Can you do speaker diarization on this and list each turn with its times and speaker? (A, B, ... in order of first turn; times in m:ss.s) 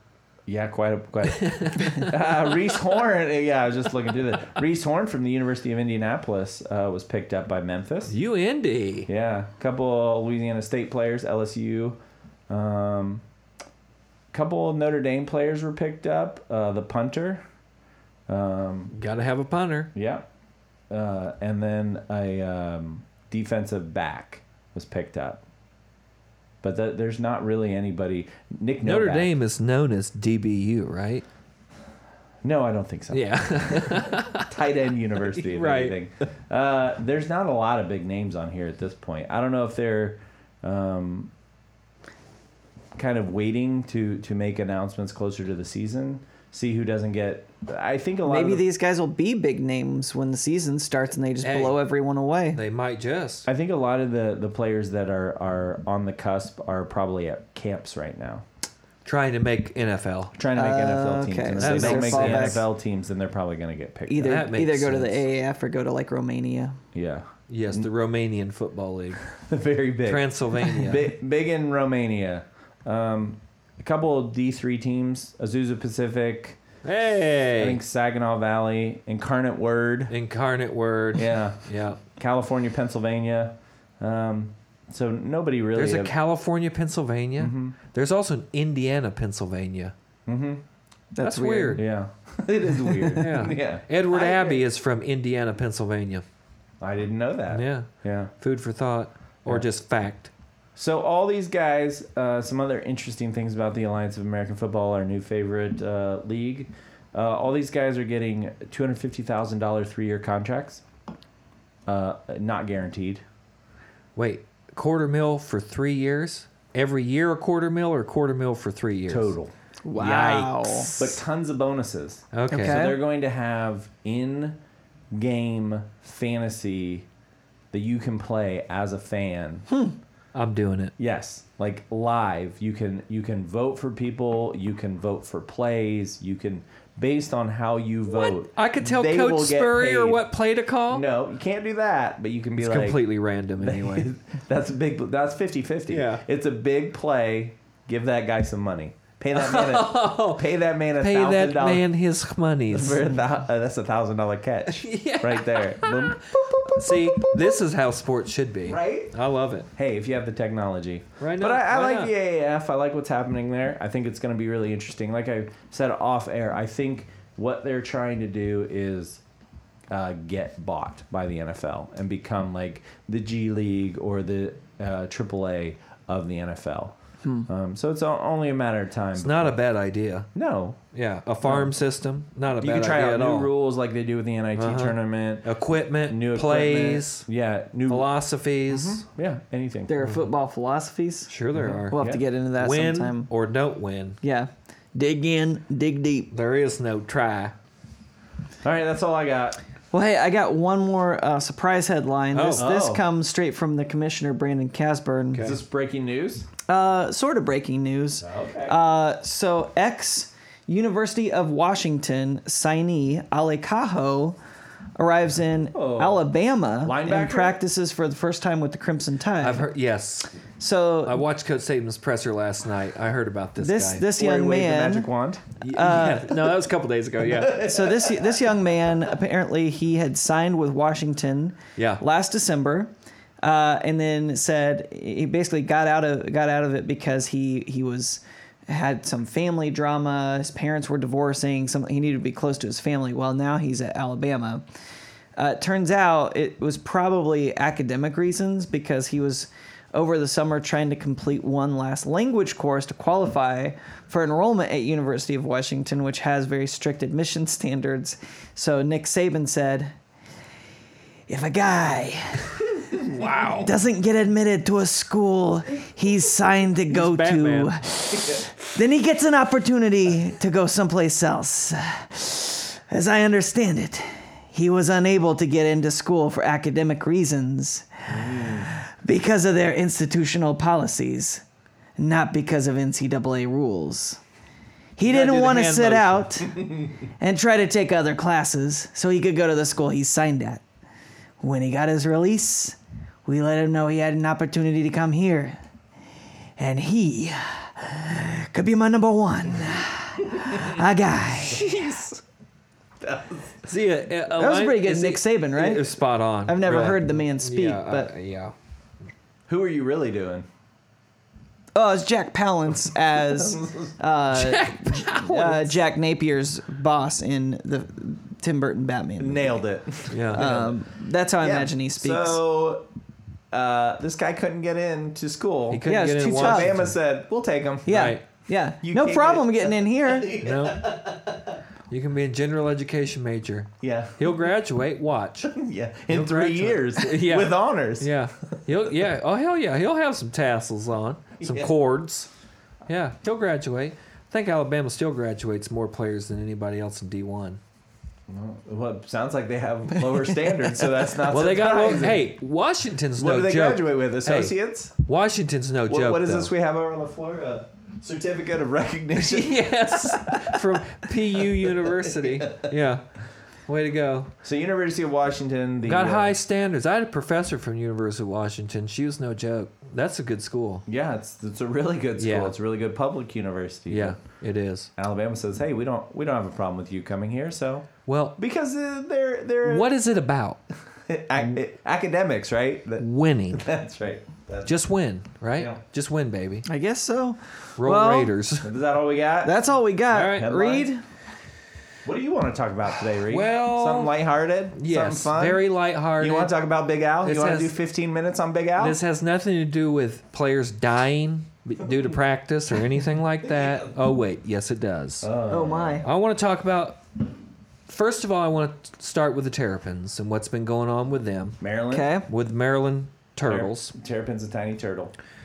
0:00.5-0:08.1 A
0:01.3-0:02.1 B
0:08.1-0:09.1 B
0:09.1-0:12.0 A
0:12.5-0:13.2 A
0:14.3-0:17.4 A
0:18.3-0:18.9 A
0:18.9-0:19.9 B
0:20.0-0:20.2 A
0:20.9-0:25.4 A
0:26.6-0:29.3 A
0:28.8-0:31.2 B
0:32.4-0:41.3 A
0:33.1-0:34.5 B
0:35.3-0:36.0 B
0:43.0-0:48.6 A
0:48.2-0:52.6 C
0:51.4-0:51.8 B
0:52.5-0:53.5 B
0:53.5-0:58.4 A
0:59.0-1:00.4 B
1:00.4-1:04.4 A
1:00.5-1:02.6 C
1:01.6-1:02.6 B
1:04.1-1:06.8 C
1:04.2-1:05.2 B
1:06.9-1:07.9 A
1:07.5-1:09.3 B
1:09.3-1:16.6 A
1:10.1-1:11.1 B
1:16.8-1:17.8 B
1:17.6-1:20.2 A
1:20.1-1:22.0 B
1:21.2-1:26.1 A
1:25.8-1:29.9 B
1:27.4-1:27.8 A
1:30.3-1:30.6 A
1:31.2-1:31.8 C
1:31.2-1:31.8 B
1:31.8-1:34.6 A
1:33.2-1:36.2 B
1:36.8-1:38.3 A
1:37.5-1:40.3 B
1:40.8-1:50.8 A
1:51.9-1:53.2 A
1:54.2-1:59.3 B
1:59.1-1:59.5 A
1:59.8-2:00.9 C
2:00.0-2:01.2 B
2:01.0-2:04.6 A
2:02.3-2:02.9 B
2:02.5-2:03.0 C
2:05.1-2:07.1 A
2:07.7-2:09.7 A
2:09.7-2:10.0 C
2:10.3-2:10.9 B
2:11.0-2:20.2 A
2:18.1-2:21.0 B
2:20.9-2:23.0 A
2:22.6-2:24.1 B
2:23.6-2:31.9 A
2:25.9-2:26.2 B
2:29.3-2:30.5 B
2:31.0-2:33.0 B
2:32.7-2:36.2 A
2:34.7-2:39.7 B
2:38.6-2:39.1 A
2:39.8-2:49.2 A
2:41.2-2:42.1 B
2:49.9-2:57.0 A
2:57.5-2:59.6 A
2:59.2-3:00.3 B
3:00.4-3:00.8 A
3:00.9-3:03.5 B
3:01.4-3:01.7 A
3:02.6-3:05.5 A
3:04.6-3:07.3 B
3:06.1-3:08.1 A
3:07.9-3:09.0 B
3:08.8-3:09.9 A
3:09.9-3:11.3 C
3:10.0-3:10.3 B
3:11.3-3:14.2 B
3:11.6-3:12.2 A
3:11.9-3:13.3 C
3:14.2-3:16.3 C
3:16.3-3:17.6 B
3:18.6-3:19.6 A
3:19.9-3:25.5 C
3:22.3-3:22.6 B
3:22.6-3:23.0 A
3:25.3-3:25.6 B
3:25.4-3:26.5 A
3:26.7-3:34.4 C
3:28.2-3:28.8 A
3:35.0-3:39.7 C
3:35.7-3:36.2 A
3:36.8-3:37.6 A
3:39.4-3:40.3 B
3:40.6-3:41.2 C
3:41.0-3:44.1 B
3:43.6-3:45.1 C
3:44.2-3:45.4 A
3:45.6-3:47.8 B
3:45.7-3:46.4 C
3:47.5-3:52.9 C
3:51.8-3:52.0 B
3:53.4-4:04.6 C
4:05.4-4:19.9 C
4:21.3-4:22.7 C
4:22.9-4:23.7 B
4:23.5-4:41.4 C
4:26.9-4:27.8 B
4:38.1-4:38.7 A
4:42.0-4:44.2 C
4:45.0-4:50.6 C
4:45.0-4:46.5 B
4:51.4-4:55.6 C
4:56.6-5:02.1 C
5:01.5-5:02.1 A
5:03.0-5:03.7 A
5:03.7-5:08.5 B
5:04.4-5:05.9 C
5:06.5-5:08.1 C
5:09.5-5:10.5 A
5:11.8-5:19.6 C
5:13.3-5:13.9 A
5:14.3-5:15.8 B
5:19.2-5:20.8 A
5:20.1-5:20.5 B
5:20.3-5:22.4 C
5:21.4-5:22.9 A
5:23.5-5:28.1 A
5:25.7-5:27.0 B
5:25.9-5:26.7 C
5:27.9-5:30.4 C
5:27.9-5:28.2 B
5:28.8-5:31.6 A
5:30.4-5:31.1 B
5:31.9-5:35.5 B
5:33.8-5:34.4 A
5:35.4-5:38.1 A
5:36.1-5:42.3 B
5:41.4-5:41.7 A
5:42.9-5:47.6 B
5:48.3-5:52.4 A
5:51.3-5:56.5 B
5:53.2-5:55.0 A
5:55.9-6:00.6 A
5:59.2-6:03.0 B
6:01.4-6:02.7 A
6:03.7-6:04.3 B
6:04.4-6:06.4 A
6:05.8-6:10.9 B
6:10.9-6:14.2 A
6:12.2-6:12.5 B
6:13.9-6:14.9 B
6:15.0-6:19.9 A
6:18.1-6:18.4 B
6:19.6-6:20.6 B
6:21.1-6:24.7 A
6:23.0-6:23.7 B
6:24.7-6:26.6 B
6:26.7-6:28.3 C
6:27.8-6:28.7 B
6:28.6-6:29.6 A
6:29.4-6:31.0 C
6:30.1-6:30.6 B
6:30.3-6:30.9 A
6:32.0-6:35.7 A
6:33.3-6:34.2 B
6:34.8-6:36.5 B
6:36.2-6:39.0 A
6:37.2-6:37.8 B
6:38.8-6:45.3 B
6:45.2-6:46.0 A
6:45.5-6:46.1 C
6:46.0-6:47.0 B
6:47.9-6:51.6 B
6:51.6-6:52.1 A
6:51.9-6:52.3 C
6:52.3-6:53.9 B
6:53.4-6:55.1 A